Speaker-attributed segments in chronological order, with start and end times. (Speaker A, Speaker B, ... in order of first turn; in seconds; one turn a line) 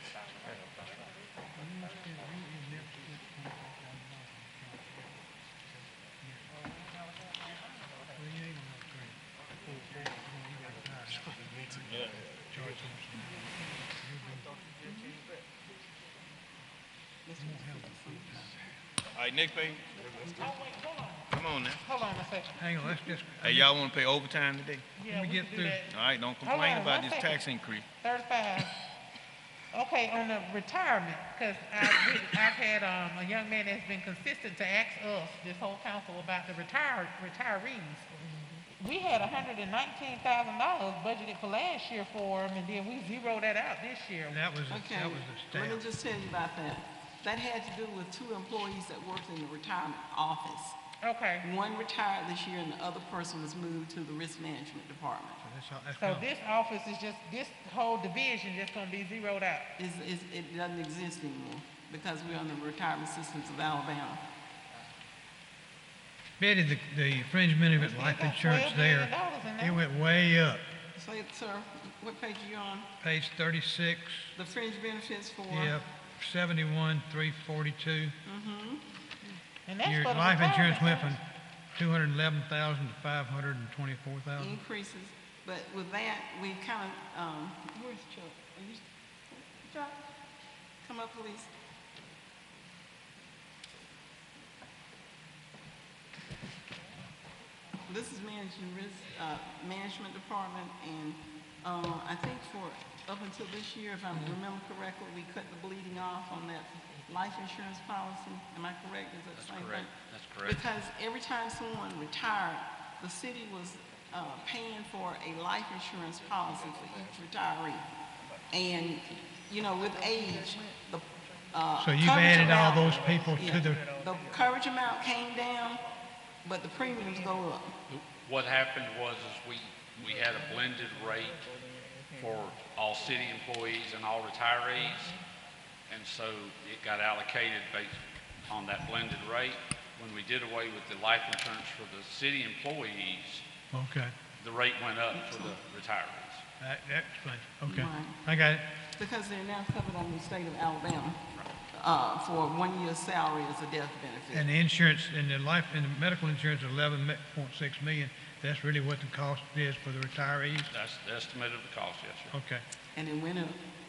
Speaker A: 1.6-5.1
Speaker A: 6.2-6.5
Speaker A: 8.1-11.9
Speaker B: 11.9-12.2
Speaker A: 12.5-14.5
Speaker C: 17.3-18.5
Speaker A: 17.4-18.5
Speaker B: 19.2-20.3
Speaker D: 20.4-21.3
Speaker B: 21.3-21.8
Speaker D: 21.8-22.6
Speaker A: 22.6-23.7
Speaker B: 23.4-24.9
Speaker D: 25.0-27.4
Speaker A: 25.1-25.8
Speaker B: 25.9-27.9
Speaker D: 28.0-28.7
Speaker D: 29.7-38.1
Speaker D: 38.8-44.4
Speaker A: 44.3-45.8
Speaker C: 44.7-50.8
Speaker D: 51.0-51.5
Speaker C: 51.4-55.4
Speaker A: 55.4-56.3
Speaker D: 56.0-59.7
Speaker C: 59.8-64.2
Speaker A: 66.4-70.7
Speaker D: 67.8-69.8
Speaker C: 71.0-72.9
Speaker A: 73.0-74.3
Speaker C: 74.4-75.8
Speaker A: 75.5-78.1
Speaker C: 78.3-78.8
Speaker D: 79.7-81.2
Speaker A: 79.8-81.2
Speaker A: 81.8-84.6
Speaker C: 84.4-90.0
Speaker C: 90.8-91.5
Speaker C: 97.9-109.9
Speaker E: 109.3-110.7
Speaker C: 110.4-117.8
Speaker C: 118.5-125.8
Speaker A: 121.8-123.8
Speaker C: 126.4-127.7
Speaker E: 127.9-131.4
Speaker E: 132.2-135.2
Speaker E: 135.9-143.4
Speaker A: 143.7-144.1
Speaker E: 144.4-146.4
Speaker C: 145.1-145.6
Speaker A: 146.6-148.6
Speaker C: 147.7-148.2
Speaker C: 149.0-151.2
Speaker C: 151.8-154.5
Speaker A: 154.3-160.7
Speaker E: 160.7-162.3
Speaker A: 162.3-162.6
Speaker C: 162.9-163.6